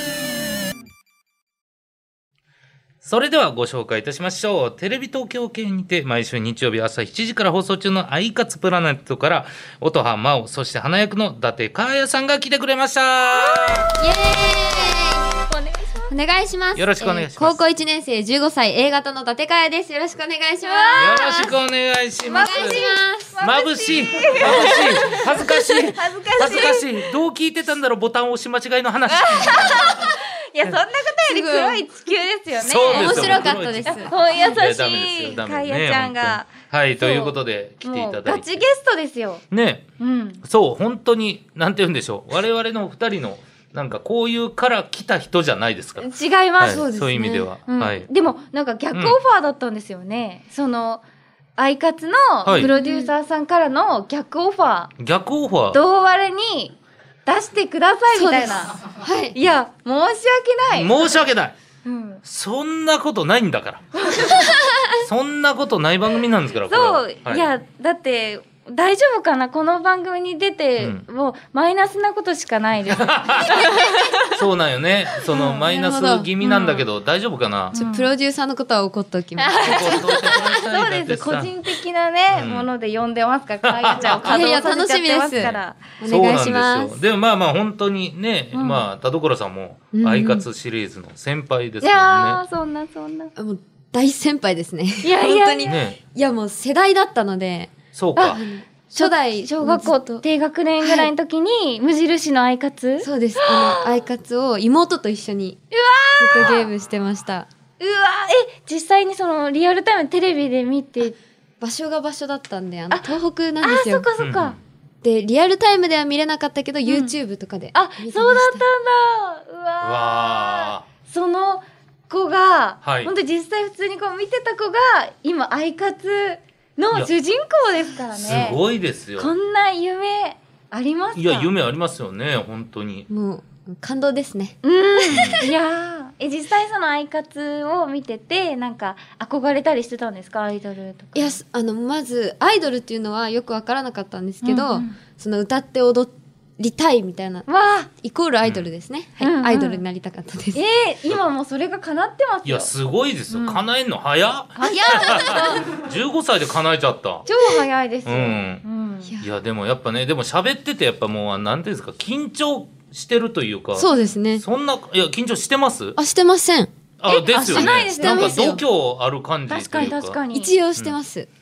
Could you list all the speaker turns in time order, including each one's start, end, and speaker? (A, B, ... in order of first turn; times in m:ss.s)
0:03.0-0:13.9 A
0:13.3-0:16.2 B
0:14.0-0:15.3 C
0:16.1-0:21.5 C
0:16.8-0:17.6 A
0:20.6-0:21.3 B
0:21.0-0:22.8 A
0:22.3-0:27.1 B
0:22.3-0:23.3 C
0:23.4-0:30.1 A
0:24.5-0:24.7 C
0:29.1-0:39.4 B
0:31.3-0:31.8 C
0:32.6-0:38.6 A
0:32.9-0:34.1 C
0:39.5-0:39.8 A
0:40.0-0:40.4 B
0:40.4-0:48.1 A
0:46.0-0:46.8 B
0:46.7-0:47.5 C
0:47.7-0:51.0 B
0:51.6-0:54.9 B
0:52.4-0:52.7 A
0:52.5-0:53.1 C
0:55.0-0:55.8 A
0:55.7-0:56.8 B
0:57.3-0:58.8 B
0:58.1-0:59.4 C
0:59.3-1:01.1 B
1:00.7-1:01.6 A
1:01.8-1:02.2 B
1:02.2-1:04.0 A
1:03.9-1:04.7 B
1:04.9-1:07.5 A
1:06.7-1:14.3 B
1:12.9-1:17.8 A
1:15.3-1:15.7 B
1:15.7-1:16.3 C
1:16.4-1:16.8 B
1:17.7-1:18.1 B
1:17.8-1:20.2 C
1:19.4-1:25.9 B
1:19.6-1:21.5 A
1:22.3-1:22.7 A
1:23.6-1:24.6 A
1:24.2-1:27.0 C
1:25.3-1:32.4 A
1:28.5-1:28.8 B
1:29.9-1:30.4 C
1:31.8-1:33.3 B
1:33.4-1:40.2 C
1:35.0-1:35.8 B
1:35.7-1:36.0 A
1:37.9-1:38.4 A
1:38.9-1:43.9 B
1:40.8-1:41.1 C
1:43.0-1:45.6 C
1:45.7-1:46.7 B
1:46.2-1:47.5 C
1:47.8-1:51.2 B
1:51.6-1:54.0 C
1:52.9-1:54.6 B
1:54.2-1:54.6 A
1:55.0-1:58.6 C
1:56.8-1:57.2 B
1:57.7-2:08.6 B
1:59.8-2:00.8 A
2:02.8-2:03.1 A
2:08.2-2:09.3 A
2:09.2-2:11.5 B
2:11.2-2:13.1 A
2:13.1-2:15.5 C
2:14.6-2:21.4 B
2:15.1-2:15.5 A
2:21.2-2:30.6 C
2:24.4-2:25.0 B
2:27.5-2:27.9 B
2:28.4-2:28.7 A
2:29.2-2:29.8 B
2:30.5-2:32.7 B
2:32.4-2:37.3 A
2:33.3-2:33.6 B
2:34.6-2:35.7 B
2:34.7-2:35.6 C
2:37.3-2:39.1 B
2:38.1-2:38.6 A
2:39.2-2:46.0 A
2:43.8-2:44.4 C
2:43.9-2:44.2 B
2:46.0-2:46.7 C
2:47.0-2:50.2 A
2:47.1-2:48.6 B
2:47.3-2:48.6 C
2:49.5-2:50.5 B
2:49.8-2:51.3 C